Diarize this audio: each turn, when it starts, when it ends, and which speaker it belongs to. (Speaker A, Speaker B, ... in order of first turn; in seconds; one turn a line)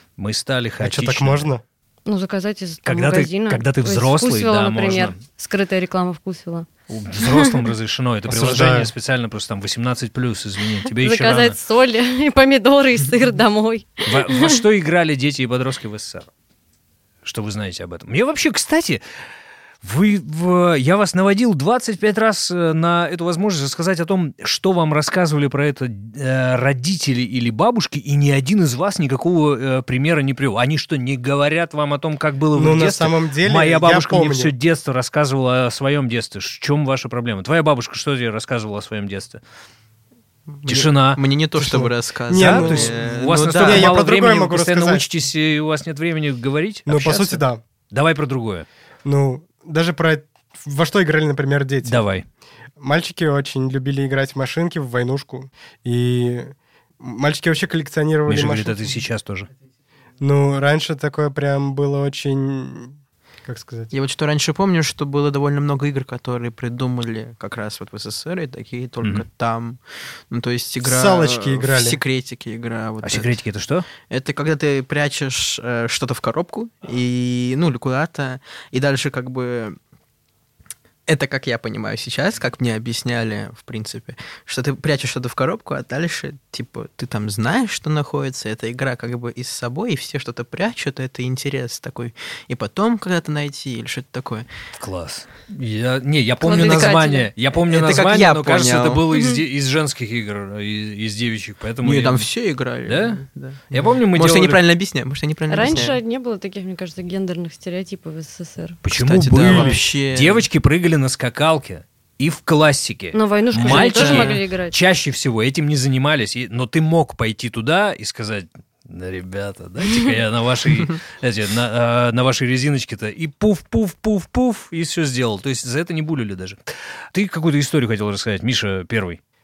Speaker A: 0.2-1.5
Speaker B: 0.8-1.6
Speaker C: 2.1-6.7
Speaker A: 2.9-5.2
Speaker A: 6.9-11.6
Speaker C: 7.2-7.7
Speaker B: 8.3-8.9
Speaker C: 10.9-14.6
Speaker A: 14.1-16.3
Speaker A: 17.2-19.0
Speaker A: 19.8-39.4
Speaker B: 32.5-34.5
Speaker D: 40.5-44.0
Speaker A: 40.7-41.2
Speaker B: 41.6-43.0
Speaker A: 42.3-48.7
Speaker B: 43.6-45.0
Speaker B: 46.9-47.6
Speaker B: 49.0-52.0
Speaker A: 51.8-52.2
Speaker B: 52.8-59.0
Speaker A: 58.3-59.5
Speaker B: 60.2-63.9
Speaker D: 63.9-73.3
Speaker B: 70.8-72.0
Speaker A: 73.0-73.9
Speaker D: 74.0-79.8
Speaker D: 81.1-94.5
Speaker A: 94.8-102.3
Speaker C: 96.4-97.3
Speaker D: 97.7-99.0
Speaker D: 101.8-106.0
Speaker A: 102.8-104.6
Speaker C: 105.5-108.8
Speaker A: 108.8-126.6
Speaker D: 108.9-110.5
Speaker C: 113.1-114.8
Speaker D: 113.6-114.4
Speaker A: 127.1-129.2